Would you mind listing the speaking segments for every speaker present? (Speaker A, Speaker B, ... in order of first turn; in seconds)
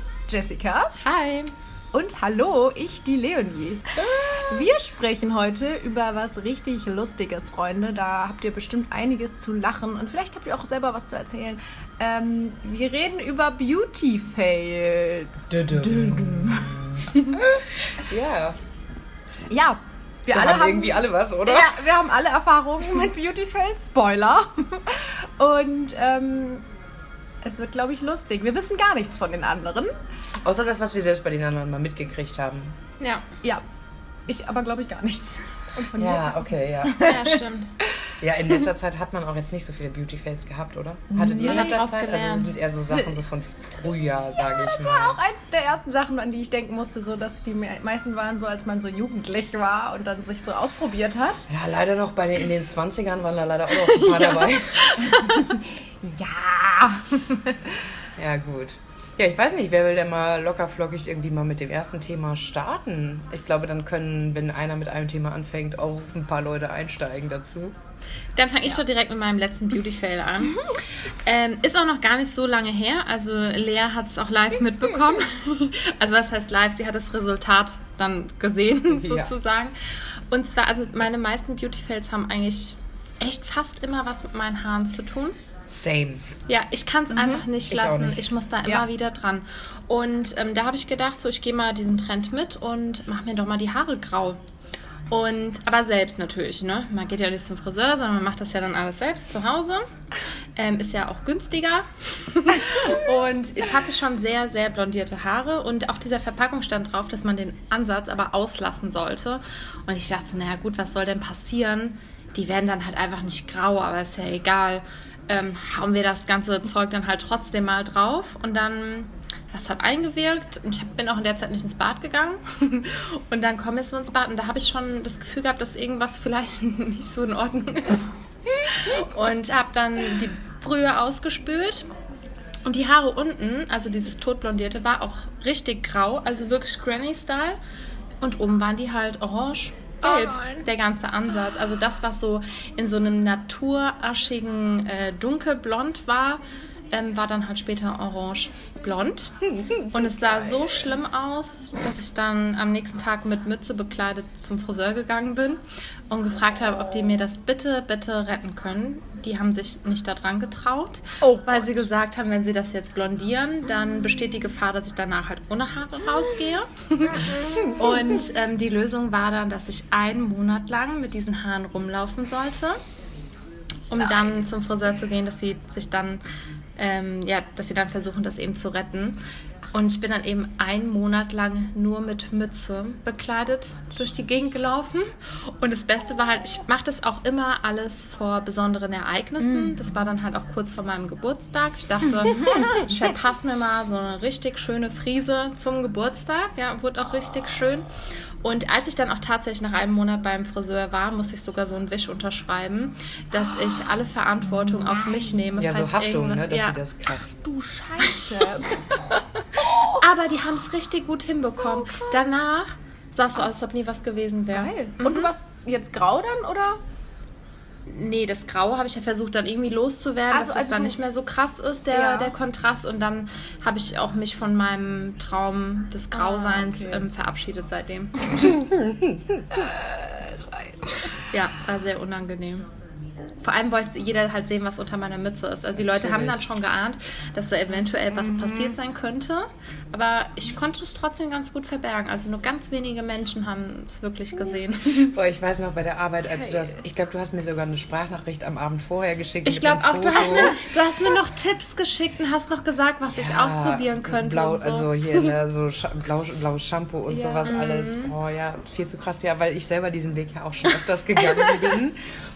Speaker A: 0.3-0.9, 1.9-17.5, 19.5-26.6, 27.4-29.9, 34.3-37.4, 41.1-41.8, 42.9-43.2, 44.4-51.5, 55.0-57.8, 87.1-87.4, 140.0-140.7, 161.2-161.9, 189.4-189.9, 192.4-192.7, 204.6-205.4, 207.4-210.0, 211.5-212.4, 214.5-216.8, 220.3-221.0, 221.9-222.3, 226.1-227.1, 229.5-231.0, 257.1-257.5
Speaker B: 1.0-1.5, 37.0-37.7, 41.5-42.5, 53.9-55.5, 68.4-79.7, 80.3-85.4, 86.5-94.4, 95.1-99.9, 100.6-128.1, 128.6-131.9, 132.7-137.6, 138.2-146.4, 146.9-155.6, 156.1-172.8, 173.9-176.2, 176.8-179.2, 179.7-197.9, 198.4-206.8, 209.8-215.3, 217.9-228.3, 231.3-232.7, 233.4-245.2, 249.4-255.3, 257.4-258.1
Speaker C: 15.5-18.6, 20.3-21.8, 30.4-32.8, 36.0-37.1, 38.2-45.2, 51.5-55.2, 58.2-67.8, 78.9-79.3, 85.7-86.3, 87.7-88.2, 149.5-150.9, 167.3-167.7, 205.6-207.3, 228.4-229.7, 235.8-236.5, 238.1-238.8, 245.1-250.6, 253.1-262.0